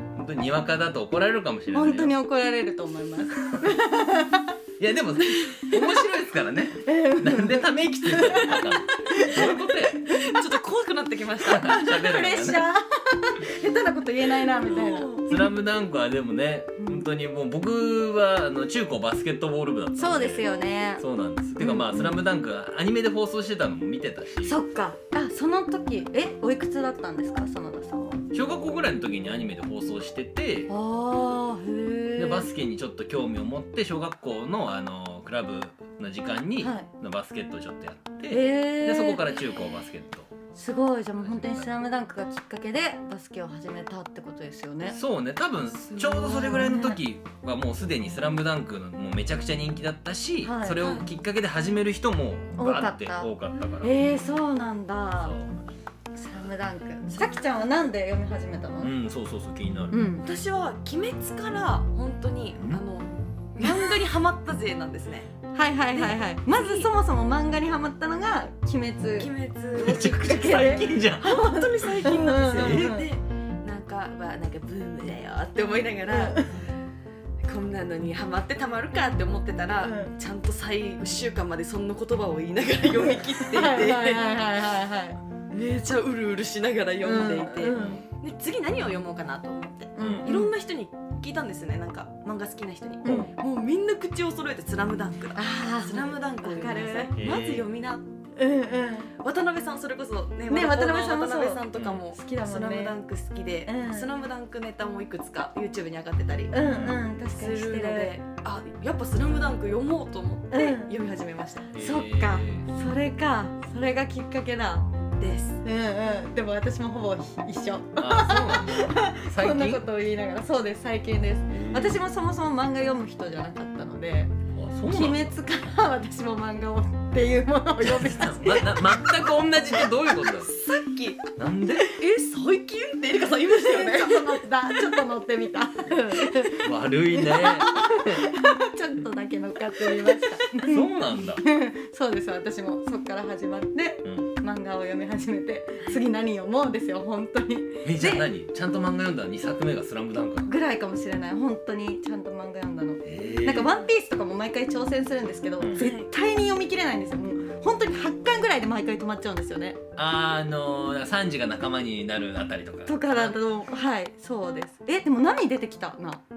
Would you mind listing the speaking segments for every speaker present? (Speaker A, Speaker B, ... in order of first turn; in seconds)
Speaker A: 0.1-2.1, 4.8-10.1, 11.4-12.7, 15.0-20.4, 21.0-24.6, 28.3-30.7, 32.2-40.3, 41.2-41.7, 44.9-54.1, 55.2-55.6, 58.8-59.9, 69.8-71.3, 72.5-73.0, 87.7-88.0, 90.0-90.3, 93.0-93.3, 97.2-97.7, 101.7-102.0, 106.6-107.0, 111.7-112.7, 118.0-119.8, 121.5-122.0, 124.5-125.3, 127.8-130.5, 131.4-131.9, 136.6-138.2, 140.6-141.4, 147.8-150.5, 153.0-153.8, 160.0-163.4
Speaker B: 1.7-4.5, 6.8-10.2, 11.7-15.5, 16.8-17.1, 20.0-21.1, 21.6-22.2, 24.4-28.2, 30.7-32.5, 36.6-36.9, 38.3-39.4, 40.5-45.0, 46.3-47.0, 50.4-50.9, 52.5-55.4, 56.1-58.9, 59.9-60.3, 63.6-64.0, 65.5-73.1, 76.1-76.5, 79.8-80.1, 83.0-85.2, 87.0-88.0, 90.0-90.5, 93.0-93.3, 95.3-97.3, 98.4-99.1, 100.5-103.0, 103.7-104.1, 106.5-108.2, 110.5-110.9, 111.8-114.9, 115.6-124.3, 124.8-128.9, 133.5-148.3, 150.5-159.8, 162.9-166.2
Speaker C: 10.1-12.0, 14.3-15.3, 45.8-46.6, 50.8-51.0, 57.1-57.7, 60.2-65.3, 65.9-66.9, 69.2-76.5, 77.4-84.3, 85.5-98.0, 99.2-111.7, 115.2-115.6, 130.1-131.2, 132.0-135.0, 155.7-156.1